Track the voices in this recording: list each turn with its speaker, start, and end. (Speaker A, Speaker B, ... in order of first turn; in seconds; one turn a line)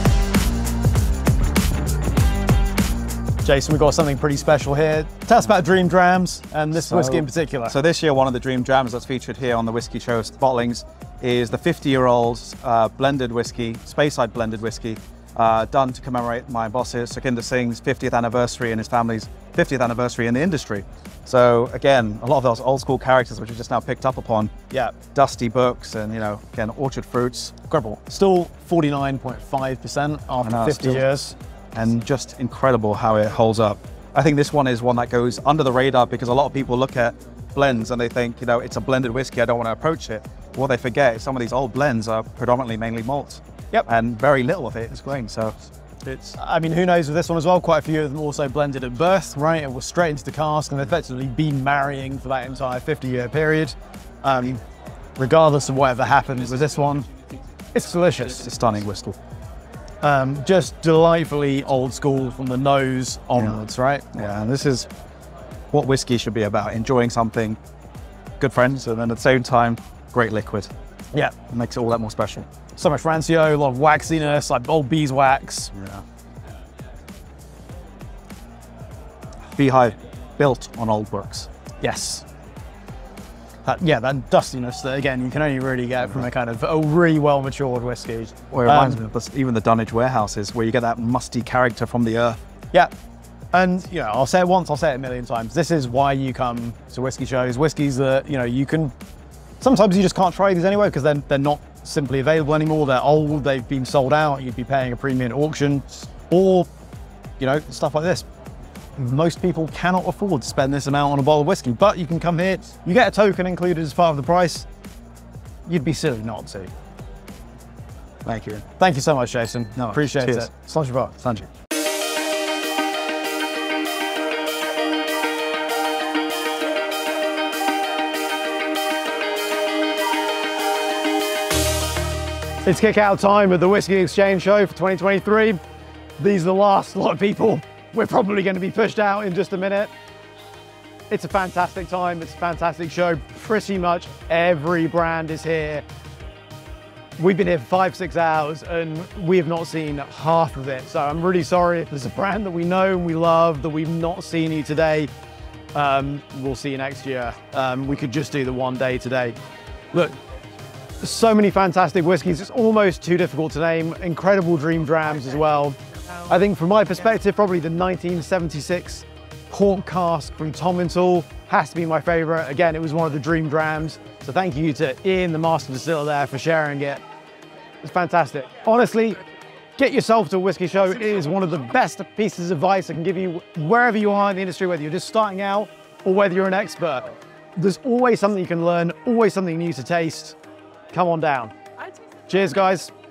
Speaker A: 3.5-7.8
Speaker B: 6.8-27.7
Speaker A: 27.7-31.4
Speaker B: 30.4-31.1
Speaker B: 31.8-45.5
Speaker B: 46.1-46.3
Speaker A: 46.3-54.6
Speaker A: 55.2-57.1
Speaker A: 57.7-58.5
Speaker B: 58.3-59.2
Speaker A: 60.0-64.1
Speaker B: 64.1-64.9
Speaker B: 65.7-67.6
Speaker B: 68.4-70.7
Speaker B: 71.5-72.5
Speaker A: 72.8-75.8
Speaker B: 75.8-76.0
Speaker B: 79.6-81.5
Speaker A: 81.8-82.2
Speaker A: 83.7-89.0
Speaker B: 88.5-92.4
Speaker A: 93.5-98.9
Speaker A: 99.6-106.7
Speaker A: 107.4-108.3
Speaker A: 109.0-114.7
Speaker A: 115.7-116.7
Speaker B: 118.2-118.6
Speaker A: 118.7-121.3
Speaker B: 119.8-120.5
Speaker A: 132.7-135.6
Speaker A: 136.2-139.9
Speaker A: 141.1-145.8
Speaker A: 147.2-155.1
Speaker A: 155.7-159.4
Speaker A: 161.0-177.0
Speaker A: 177.8-179.2
Speaker A: 179.8-190.4
Speaker A: 190.9-191.5
Speaker A: 192.3-192.9